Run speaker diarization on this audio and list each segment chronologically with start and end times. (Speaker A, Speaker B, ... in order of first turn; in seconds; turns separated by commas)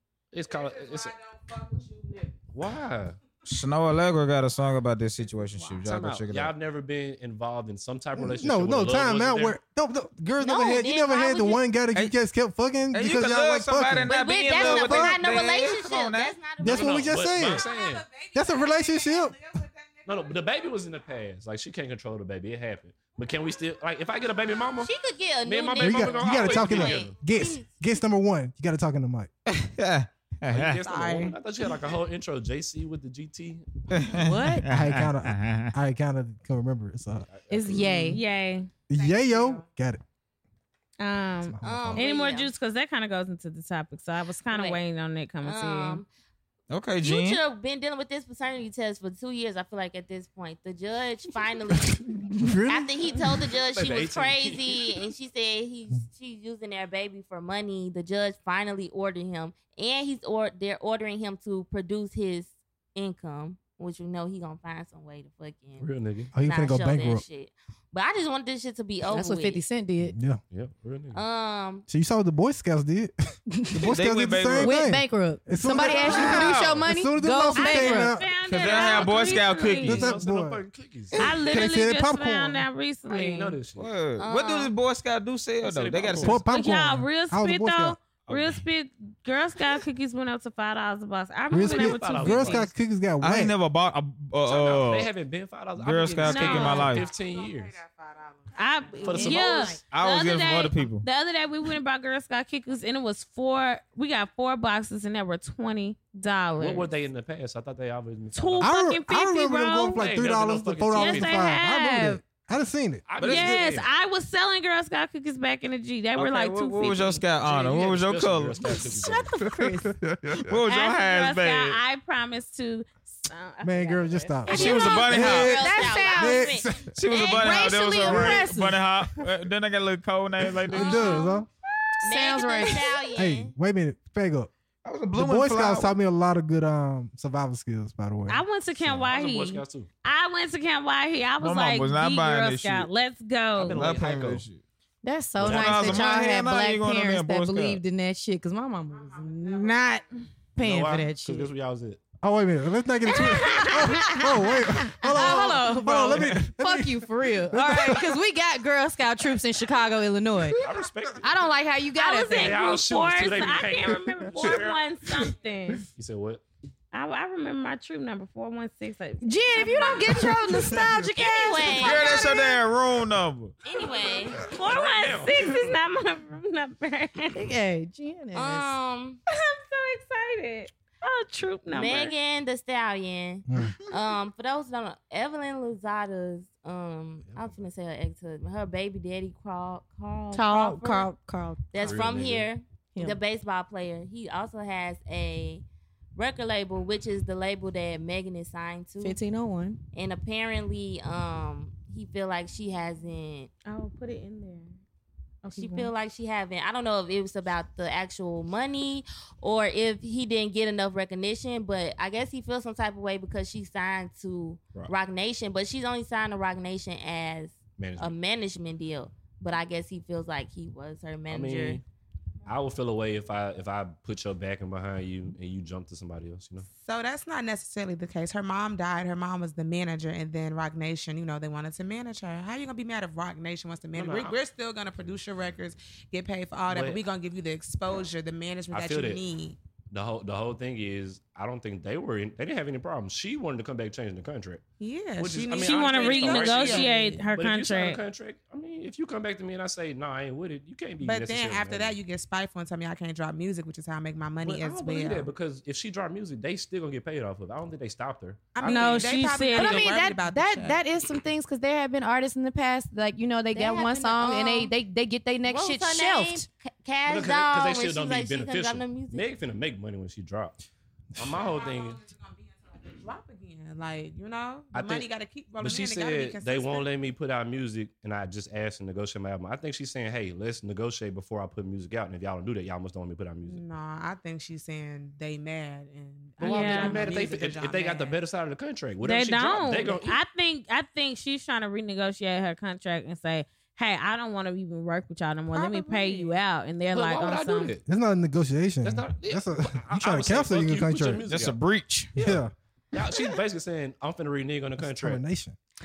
Speaker A: 0.3-1.1, Speaker B: 0.6-2.3, Speaker A: 2.5-3.2, Speaker C: 3.4-6.5, Speaker A: 5.8-9.6, Speaker D: 8.2-15.2, Speaker E: 10.4-11.6, Speaker C: 12.9-16.4, Speaker E: 14.1-17.3, Speaker D: 16.6-17.6, Speaker A: 16.6-18.1, Speaker B: 17.4-20.8, Speaker D: 18.3-19.4, Speaker A: 20.0-24.9, Speaker E: 24.8-27.7, Speaker A: 25.4-27.1, Speaker D: 25.8-29.3, Speaker C: 29.5-31.0, Speaker A: 30.5-33.9, Speaker B: 30.8-31.4, Speaker C: 33.9-35.7, Speaker F: 34.2-34.6, Speaker D: 34.6-38.1, Speaker A: 37.2-38.1, Speaker F: 37.5-38.2, Speaker G: 38.1-38.7, Speaker D: 38.9-40.0, Speaker B: 38.9-39.7, Speaker G: 41.0-46.0, Speaker D: 41.4-42.0, Speaker E: 41.6-42.5, Speaker E: 44.5-44.8, Speaker E: 45.4-46.1, Speaker C: 46.7-47.4, Speaker E: 47.0-52.1, Speaker D: 51.7-53.4, Speaker E: 52.7-69.6, Speaker A: 53.7-54.9, Speaker A: 65.8-66.3, Speaker D: 66.3-67.2, Speaker F: 69.0-70.2, Speaker D: 70.0-70.4, Speaker A: 70.5-71.2, Speaker E: 71.1-71.8, Speaker D: 71.9-73.1, Speaker F: 73.5-73.9, Speaker D: 73.7-78.3, Speaker C: 73.9-74.8, Speaker F: 74.6-78.2, Speaker C: 75.7-76.8, Speaker G: 77.5-80.1, Speaker C: 78.5-80.2, Speaker A: 78.7-81.2, Speaker D: 79.8-80.6, Speaker G: 81.2-83.6, Speaker D: 81.2-82.7, Speaker A: 83.0-83.9, Speaker C: 83.8-86.4, Speaker E: 84.2-84.7, Speaker A: 85.6-86.4, Speaker D: 86.2-88.0, Speaker G: 86.5-92.7, Speaker D: 91.5-93.5, Speaker A: 91.5-92.7, Speaker C: 93.2-95.1, Speaker A: 94.4-97.8, Speaker C: 95.8-97.1, Speaker G: 96.2-97.0, Speaker B: 96.9-99.4, Speaker G: 98.5-106.9, Speaker A: 99.0-99.8, Speaker F: 99.2-99.8, Speaker C: 99.9-101.0, Speaker A: 106.6-108.7, Speaker G: 108.3-110.0, Speaker D: 108.6-113.0, Speaker A: 109.9-111.4, Speaker G: 110.9-112.2, Speaker A: 113.1-113.9, Speaker C: 113.2-113.6, Speaker G: 113.2-117.2, Speaker C: 116.2-118.8, Speaker A: 117.4-119.3, Speaker F: 118.7-120.0, Speaker D: 119.5-120.5, Speaker C: 120.3-121.8, Speaker G: 120.7-125.0, Speaker D: 123.6-125.6, Speaker E: 124.5-128.3, Speaker C: 124.5-125.6, Speaker F: 125.1-126.5, Speaker D: 126.1-126.9, Speaker C: 126.9-131.2, Speaker F: 127.3-128.8, Speaker D: 128.1-128.4, Speaker D: 130.6-131.5, Speaker E: 130.8-131.3, Speaker F: 132.0-133.1, Speaker E: 132.0-133.5, Speaker D: 133.2-134.5, Speaker C: 134.8-135.9, Speaker D: 135.1-138.4, Speaker G: 138.3-143.8, Speaker A: 138.8-139.9, Speaker C: 141.4-142.9, Speaker A: 143.6-144.4, Speaker C: 143.7-144.6, Speaker F: 145.0-151.5, Speaker A: 145.4-146.1, Speaker C: 145.4-147.8, Speaker B: 149.2-149.8, Speaker A: 150.6-152.0, Speaker D: 152.2-158.2, Speaker G: 153.1-154.2, Speaker F: 153.2-160.6, Speaker A: 160.5-161.5, Speaker F: 161.2-162.6, Speaker G: 161.9-165.8, Speaker A: 162.3-164.8, Speaker A: 165.9-166.4, Speaker G: 166.9-170.4, Speaker F: 169.2-172.4, Speaker E: 171.1-172.6, Speaker C: 171.7-173.6, Speaker E: 173.6-174.4, Speaker G: 174.3-177.5, Speaker A: 174.5-175.7, Speaker F: 177.3-178.7, Speaker E: 178.3-179.2, Speaker G: 179.3-182.1, Speaker E: 181.7-191.1, Speaker D: 183.5-183.7, Speaker F: 190.3-191.7, Speaker E: 191.7-195.6, Speaker A: 191.7-192.5, Speaker E: 196.1-199.2, Speaker F: 199.0-199.8, Speaker E: 199.9-203.5, Speaker G: 203.7-204.7, Speaker G: 205.4-205.9, Speaker E: 205.5-221.8, Speaker A: 217.8-218.1, Speaker A: 221.3-221.8, Speaker A: 222.4-226.7, Speaker B: 226.7-239.6, Speaker A: 233.9-234.4, Speaker A: 236.7-237.0, Speaker A: 238.7-239.2, Speaker A: 239.9-244.6, Speaker B: 244.8-247.3, Speaker A: 245.2-252.0, Speaker G: 245.5-248.0, Speaker B: 251.0-255.3, Speaker A: 254.4-259.2, Speaker B: 258.5-260.8, Speaker G: 258.7-259.9, Speaker F: 258.7-266.5, Speaker E: 263.5-264.7, Speaker E: 265.4-269.3, Speaker A: 267.1-270.6, Speaker A: 271.1-272.0, Speaker B: 271.3-276.9, Speaker A: 274.7-275.1, Speaker A: 275.6-283.6, Speaker B: 283.4-288.2, Speaker A: 286.4-290.2, Speaker G: 286.4-287.1, Speaker G: 289.0-297.7, Speaker B: 295.5-296.4, Speaker A: 296.9-297.8, Speaker D: 297.9-301.2, Speaker A: 298.8-301.6, Speaker C: 301.3-302.1, Speaker A: 302.1-305.2, Speaker D: 302.2-302.5, Speaker D: 304.8-305.6